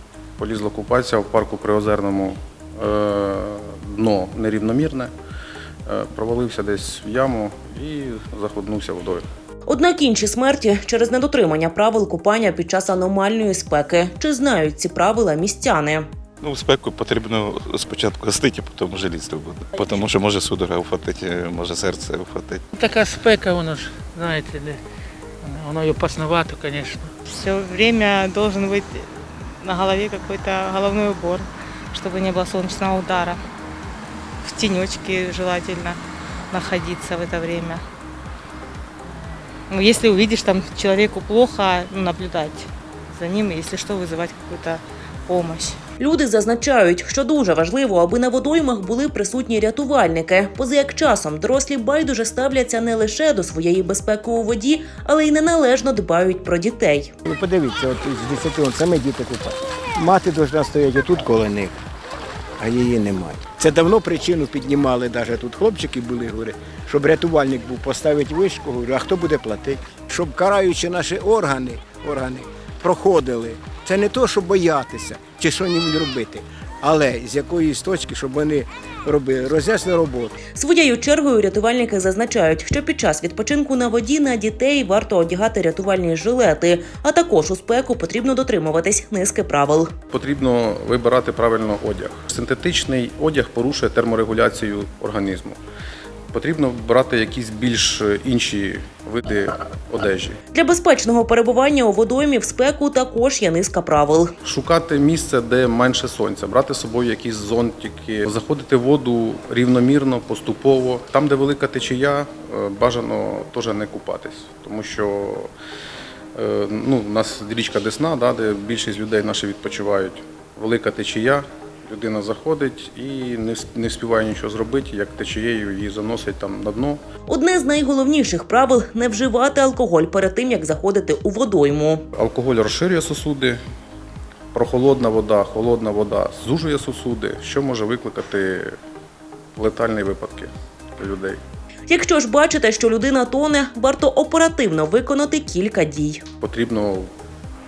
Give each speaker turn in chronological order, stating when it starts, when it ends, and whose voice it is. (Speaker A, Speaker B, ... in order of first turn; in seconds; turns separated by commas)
Speaker A: 0.4-5.1, Speaker A: 5.9-9.2, Speaker B: 9.7-16.1, Speaker C: 16.4-22.7, Speaker D: 22.7-24.8, Speaker D: 25.4-27.1, Speaker E: 27.2-33.4, Speaker E: 34.4-36.0, Speaker E: 36.5-37.8, Speaker E: 39.7-45.8, Speaker B: 46.0-57.1, Speaker F: 57.2-61.8, Speaker F: 62.6-80.4, Speaker B: 80.5-89.9, Speaker A: 90.1-95.6, Speaker A: 96.3-100.4, Speaker B: 100.5-104.3, Speaker A: 104.4-115.5, Speaker A: 116.3-127.0, Speaker B: 127.3-132.0, Speaker A: 132.1-133.6, Speaker A: 134.5-138.8, Speaker A: 139.6-141.4, Speaker B: 141.9-146.2, Speaker A: 146.4-147.1